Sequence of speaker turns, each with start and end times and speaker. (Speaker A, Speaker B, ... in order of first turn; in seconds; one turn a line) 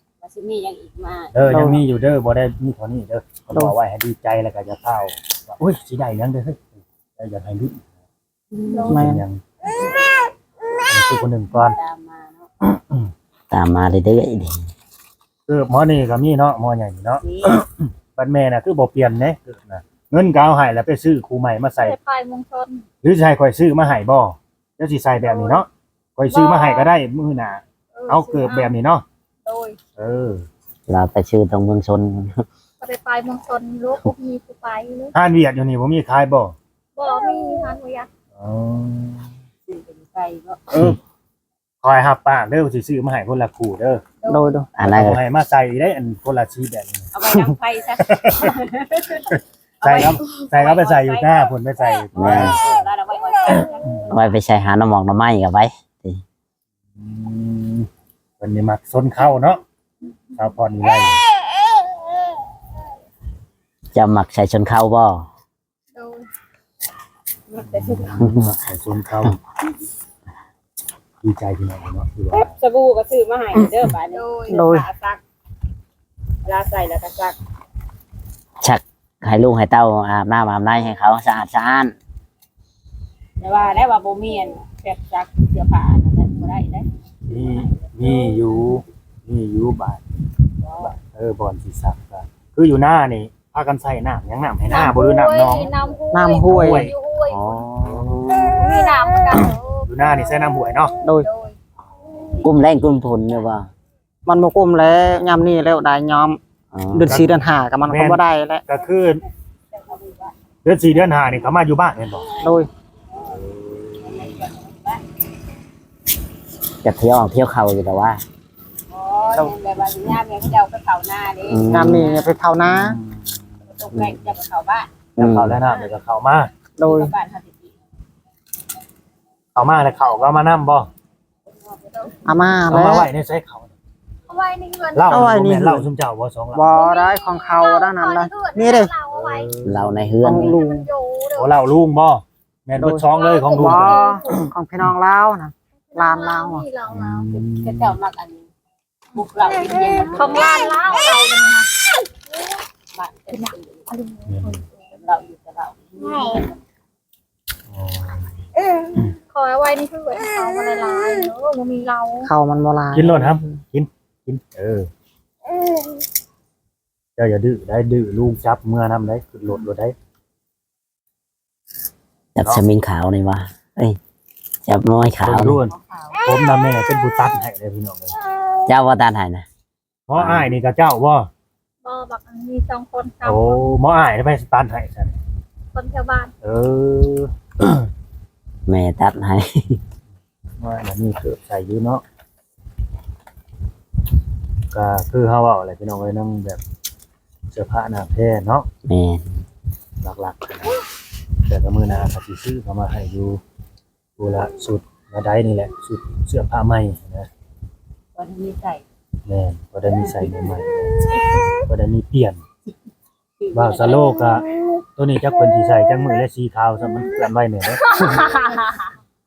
Speaker A: 0.2-1.3
Speaker B: 1.3-7.8
Speaker C: 1.4-1.8
Speaker A: 8.5-9.0
Speaker B: 8.9-9.4
Speaker C: 8.9-9.2
Speaker B: 10.9-11.8
Speaker A: 11.5-12.5
Speaker B: 12.6-13.1
Speaker D: 13.5-14.7
Speaker B: 15.5-21.9
Speaker A: 17.2-17.6
Speaker E: 21.8-22.8
Speaker B: 23.0-29.0
Speaker E: 25.2-25.6
Speaker E: 26.3-26.9
Speaker E: 27.9-28.8
Speaker E: 29.4-29.8
Speaker B: 29.9-30.4
Speaker D: 30.9-32.4
Speaker E: 32.8-35.1
Speaker B: 35.1-36.5
Speaker E: 37.0-38.1
Speaker B: 38.3-39.3
Speaker A: 39.7-40.6
Speaker B: 40.7-41.0
Speaker B: 41.8-44.0
Speaker E: 44.2-44.5
Speaker C: 44.3-44.7
Speaker D: 44.8-45.2
Speaker B: 44.8-47.1
Speaker A: 47.1-51.5
Speaker B: 48.1-48.5
Speaker B: 49.3-52.8
Speaker D: 52.1-52.6
Speaker A: 52.1-54.4
Speaker D: 54.1-56.2
Speaker B: 57.0-57.9
Speaker B: 58.4-59.6
Speaker B: 60.3-61.2
Speaker D: 63.9-65.3
Speaker E: 65.9-66.3
Speaker A: 67.5-68.3
Speaker B: 67.7-69.4
Speaker D: 68.2-68.5
Speaker B: 71.2-72.5
Speaker A: 72.3-75.2
Speaker E: 74.1-74.7
Speaker C: 74.5-74.9
Speaker A: 76.4-77.4
Speaker D: 78.6-81.9
Speaker A: 83.4-86.9
Speaker B: 87.3-90.0
Speaker A: 87.8-88.3
Speaker A: 90.6-90.9
Speaker B: 90.8-95.7
Speaker E: 94.7-97.6
Speaker C: 96.1-96.9
Speaker B: 96.4-96.9
Speaker D: 97.2-98.7
Speaker B: 97.8-98.2
Speaker E: 98.5-100.3
Speaker B: 99.9-100.9
Speaker C: 101.0-101.3
Speaker E: 101.2-101.6
Speaker D: 102.4-103.7
Speaker C: 104.2-106.4
Speaker D: 106.7-107.2
Speaker C: 106.9-108.6
Speaker B: 107.1-109.2
Speaker A: 109.7-110.3
Speaker B: 110.6-112.3
Speaker C: 112.4-112.7
Speaker B: 113.5-113.9
Speaker A: 114.0-115.0
Speaker D: 116.8-118.2
Speaker A: 118.9-122.3
Speaker D: 121.5-122.2
Speaker C: 121.7-123.0
Speaker B: 122.6-123.2
Speaker A: 123.7-124.9
Speaker B: 125.2-126.5
Speaker D: 125.2-125.6
Speaker C: 126.8-127.1
Speaker A: 126.8-127.8
Speaker B: 129.5-130.9
Speaker A: 131.6-132.1
Speaker C: 132.2-133.1
Speaker B: 132.7-133.7
Speaker E: 134.3-135.3
Speaker B: 134.9-136.8
Speaker C: 135.1-135.9
Speaker C: 136.5-138.9
Speaker E: 136.7-139.5
Speaker B: 139.1-140.2
Speaker D: 139.6-140.6
Speaker C: 140.2-140.8
Speaker E: 140.2-141.5
Speaker B: 141.3-144.2
Speaker C: 142.8-146.7
Speaker E: 143.1-144.5
Speaker E: 145.9-147.3
Speaker B: 146.9-147.9
Speaker A: 147.3-148.5
Speaker A: 149.1-151.0
Speaker E: 150.1-151.7
Speaker A: 152.9-153.9
Speaker E: 153.3-154.7
Speaker B: 154.3-154.6
Speaker A: 154.9-156.6
Speaker B: 157.7-158.3
Speaker E: 159.3-162.3
Speaker C: 162.2-163.6
Speaker B: 162.9-164.9
Speaker B: 167.2-169.9
Speaker D: 172.3-174.0
Speaker D: 174.6-175.6
Speaker B: 175.2-178.1
Speaker A: 175.7-176.2
Speaker D: 178.7-179.4
Speaker B: 180.1-181.3
Speaker D: 180.2-180.5
Speaker E: 181.8-183.6
Speaker B: 183.2-185.2
Speaker E: 185.7-186.3
Speaker B: 186.4-187.9
Speaker D: 188.7-189.8
Speaker B: 190.6-192.0
Speaker B: 194.7-196.6
Speaker B: 197.5-198.7
Speaker D: 198.8-199.3
Speaker B: 200.0-200.8
Speaker B: 201.5-203.4
Speaker B: 204.2-207.3
Speaker A: 208.1-208.8
Speaker B: 209.3-211.0
Speaker A: 210.1-210.5
Speaker B: 211.7-212.4
Speaker A: 213.4-214.2
Speaker B: 213.5-218.0
Speaker E: 217.7-218.9